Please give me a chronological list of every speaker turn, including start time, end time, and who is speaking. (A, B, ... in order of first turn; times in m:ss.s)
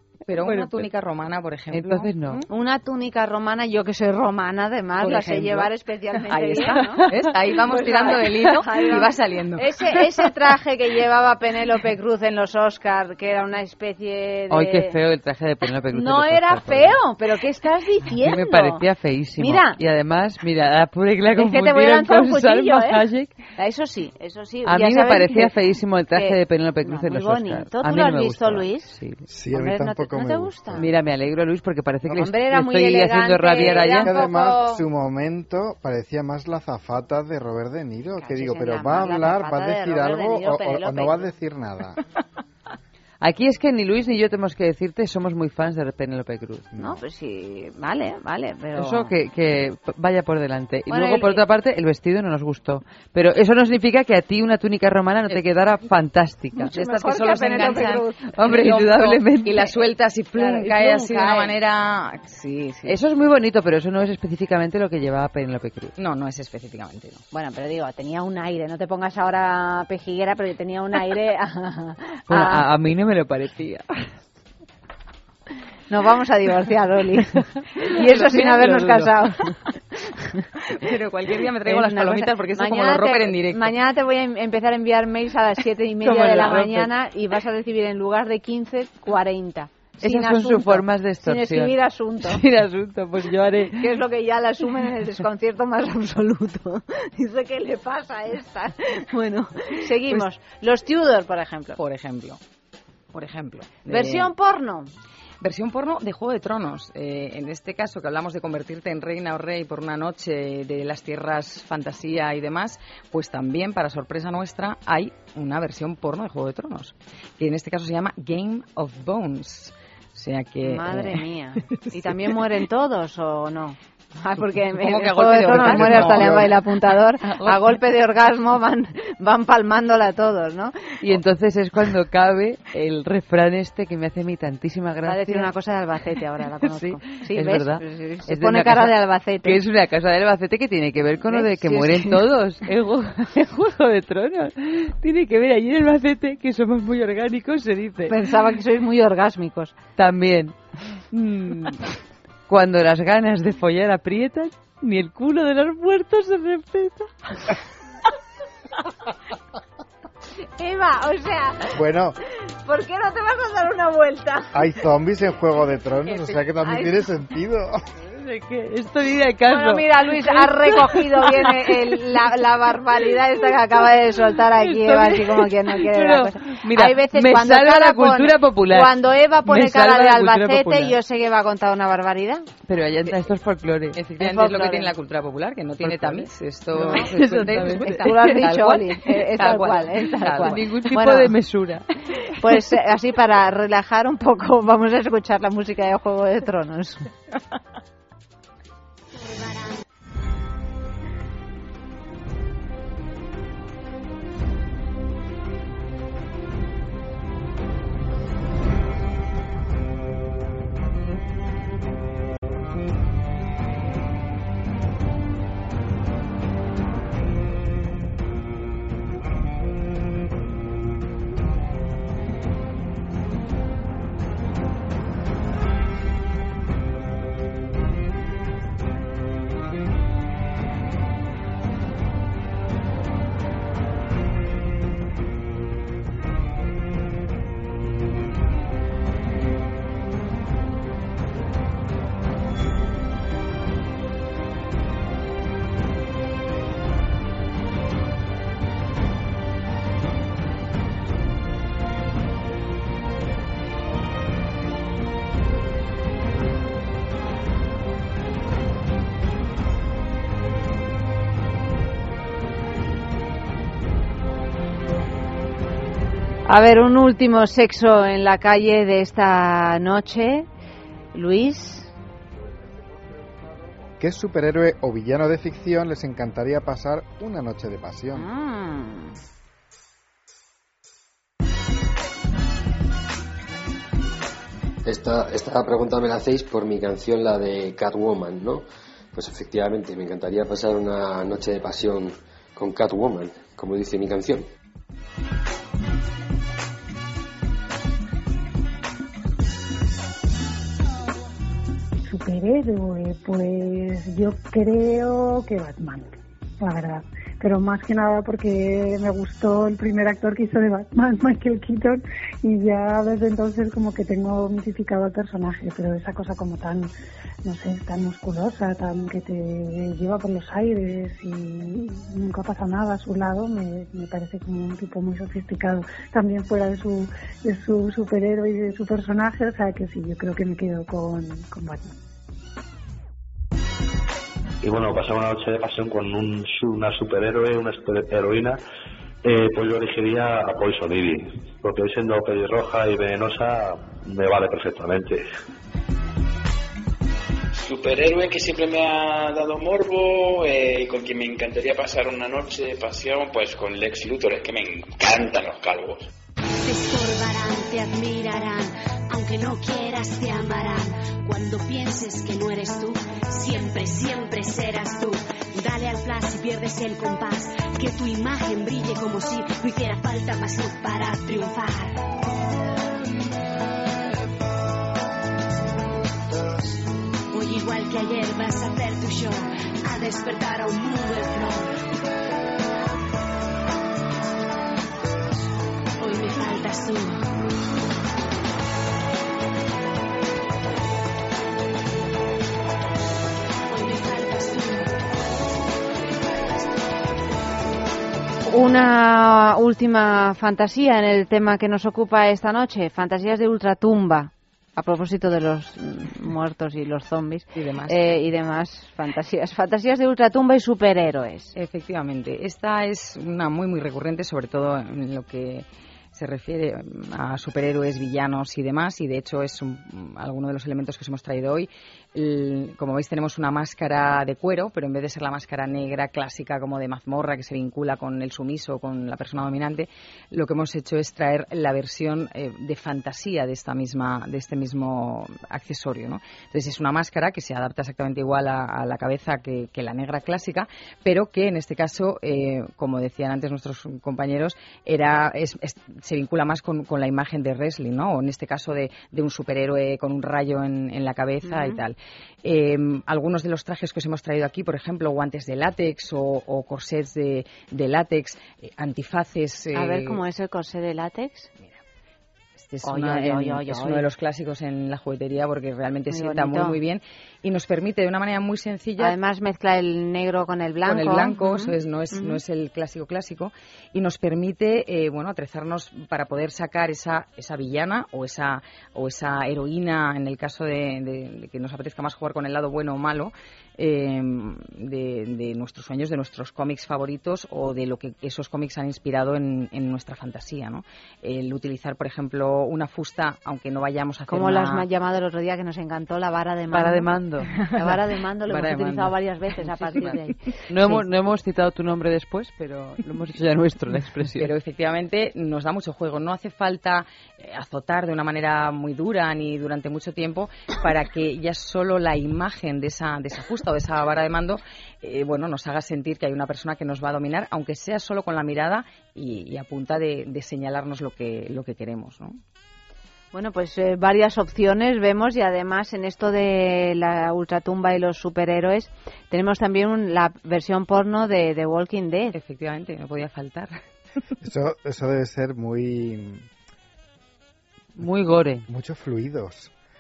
0:00.3-0:02.4 A
0:00.4-0:00.8 B
0:01.7-0:02.4 C
0:02.5-0:07.1 B
0:05.0-0:05.7 A
0:06.3-0:10.1 A
0:06.6-0:07.3 C
0:07.7-0:14.9 B
0:14.5-0:17.0 C
0:15.9-0:18.8 B
0:18.1-0:23.4 C
0:19.4-0:19.8 B
0:21.4-0:23.0 B
0:23.6-0:25.5 B
0:24.6-0:29.3 C
0:26.1-0:28.9 B
0:29.3-0:30.9 D
0:29.5-0:30.8 B
0:30.8-0:34.2 C
0:32.2-0:34.8 B
0:33.8-0:42.0 D
0:38.2-0:41.3 B
0:43.2-0:46.7 C
0:46.8-0:49.1 B
0:48.8-0:56.7 C
0:50.9-0:51.4 B
0:56.6-0:58.1 B
0:56.7-1:03.0 A
0:58.4-0:59.7 C
1:00.4-1:01.5 B
1:02.9-1:05.9 C
1:06.0-1:07.2 A
1:07.3-1:12.6 B
1:12.3-1:14.1 C
1:15.9-1:19.4 B
1:17.8-1:19.5 C
1:20.7-1:23.8 A
1:21.7-1:32.4 B
1:26.0-1:26.9 C
1:30.0-1:33.9 C
1:33.8-1:41.8 B
1:41.8-1:42.4 A
1:43.1-1:44.3 A
1:43.9-1:44.9 B
1:45.4-2:01.2 A
2:00.6-2:11.0 B
2:04.8-2:06.7 A
2:05.7-2:06.2 C
2:11.0-2:15.5 C
2:15.0-2:19.6 B
2:16.6-2:28.2 C
2:21.3-2:22.2 B
2:28.1-2:29.8 B
2:30.0-2:30.6 C
2:31.1-2:31.8 C
2:32.5-2:37.1 C
2:40.6-2:41.7 B
2:41.8-2:42.2 D
2:42.6-2:44.5 B
2:44.5-2:47.8 D
2:46.6-2:47.0 B
2:48.1-2:51.9 C
2:49.5-3:02.5 B
2:54.6-3:01.0 C
3:02.7-3:04.0 C
3:04.0-3:10.6 A
3:04.2-3:04.9 B
3:05.8-3:08.4 C
3:08.0-3:11.3 B
3:10.4-3:11.9 C
3:12.4-3:17.0 B
3:19.1-3:19.8 E
4:26.5-4:30.5 B
4:31.1-4:31.9 B
4:34.0-4:38.3 D
4:38.2-4:39.2 B
4:44.9-4:54.5 F
5:02.1-5:16.9 G
5:17.4-5:31.9 G
5:34.6-5:38.6 H
5:39.2-5:45.3 H
5:47.6-5:56.1 I
5:56.6-6:12.1 E
6:17.3-6:21.8 E
6:26.0-6:27.3 E
6:33.7-6:35.0 E
6:35.9-6:36.7 E
6:38.5-6:51.6 B
6:47.5-6:48.0 A
6:51.6-7:40.2 A
7:31.4-7:31.8 B
7:39.8-7:41.5 B
7:42.6-7:49.2 A
7:42.8-7:44.1 B
7:46.1-7:46.8 B
7:49.0-7:52.4 B
7:50.8-8:14.8 A
8:14.3-8:21.0 B
8:16.7-8:17.5 C
8:18.5-8:19.1 A
8:19.7-8:24.5 C
8:24.4-8:42.4 A
8:43.3-8:52.4 B
8:52.3-8:53.8 A
8:54.4-8:56.5 D
8:58.0-8:58.6 C
8:58.7-8:59.7 D